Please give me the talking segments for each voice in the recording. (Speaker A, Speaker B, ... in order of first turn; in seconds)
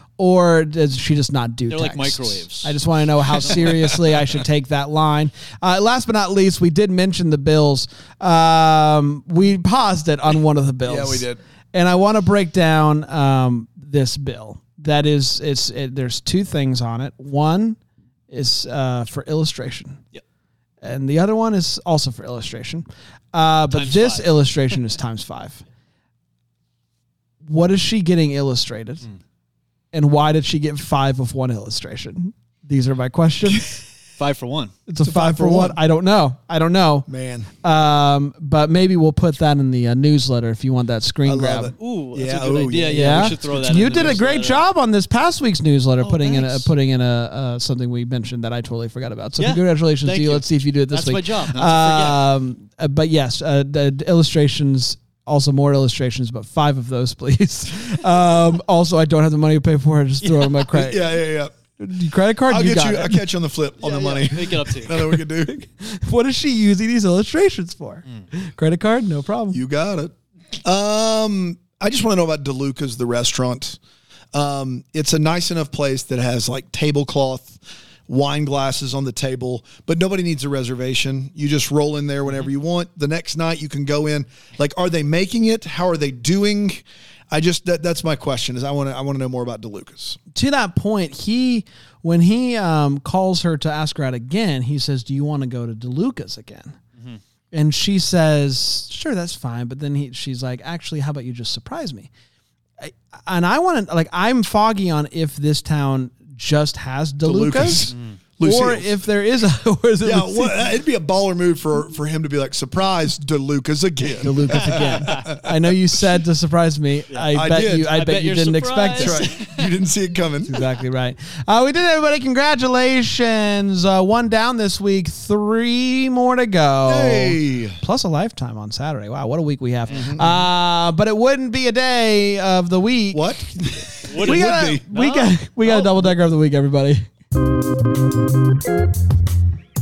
Speaker A: 0.2-17.8, 18.3-20.0, 20.8-25.6, 27.4-29.1, 29.9-33.8, 34.9-37.1, 37.6-41.8, 42.9-61.1, 61.8-63.2, 65.4-69.6, 90.3-96.8, 97.5-102.1, 102.8-110.6, 114.2-119.2, 120.5-133.3, 134.2-137.1
Speaker B: 1.7-2.8, 3.4-3.8, 23.7-24.3, 34.2-34.7, 41.8-44.6, 46.0-46.7, 49.4-52.3, 60.2-60.7, 63.8-65.0, 107.9-108.2, 114.6-115.2, 117.9-119.7, 134.1-136.0
Speaker C: 10.8-11.4, 35.0-35.8, 37.1-37.5, 41.2-44.2, 60.7-61.6, 62.5-65.6, 69.5-70.1, 70.6-73.8, 74.3-90.2, 107.2-109.0, 110.0-115.5, 117.3-118.0, 119.0-120.6, 126.9-127.8, 129.9-130.5, 133.1-134.8